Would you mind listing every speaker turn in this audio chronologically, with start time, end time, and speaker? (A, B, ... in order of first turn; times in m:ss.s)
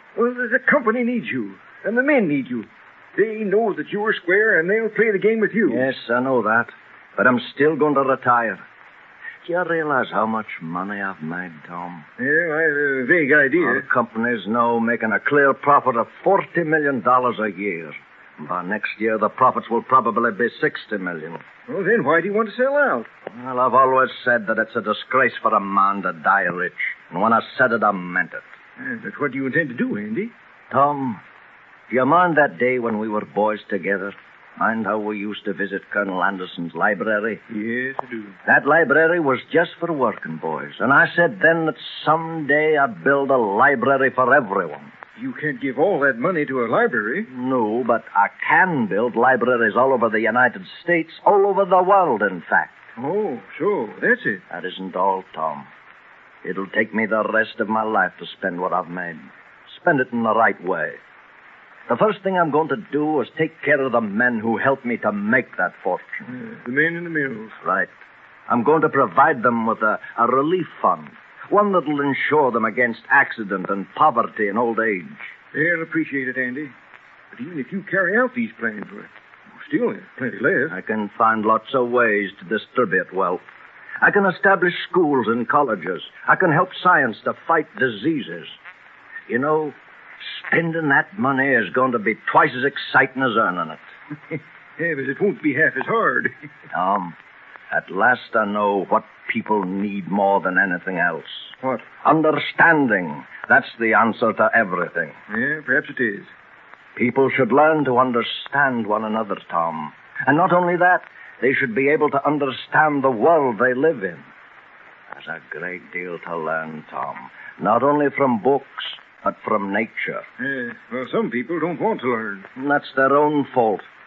0:00.2-0:05.9 A
0:05.7-0:08.6 B
0:09.4-0:12.0 B
0:12.2-0:13.8 A
0:13.6-0:21.4 B
0:21.7-0:23.1 A
0:23.3-0:28.4 B
0:28.8-0:30.3 A
0:30.7-0:31.2 B
0:31.9-0:37.4 B
0:37.5-0:38.4 A
0:38.4-0:44.9 B
0:45.2-0:47.3 A
0:47.3-0:52.8 B
0:53.0-0:54.4 A
0:54.5-0:55.7 B
0:56.4-1:01.0 B
1:01.9-1:06.3 B
1:06.3-1:07.6 A
1:07.6-1:07.9 B
1:08.5-1:15.3 B
1:15.5-1:16.7 A
1:17.3-1:20.7 A
1:20.7-1:23.4 B
1:24.0-1:28.6 B
1:29.3-1:33.8 B
1:34.8-1:36.3 A
1:36.7-1:37.1 B
1:37.7-1:45.2 B
1:41.6-1:41.9 A
1:45.3-1:46.3 A
1:47.0-1:54.2 B
1:55.1-2:00.2 B
2:00.4-2:02.5 A
2:02.6-2:03.8 B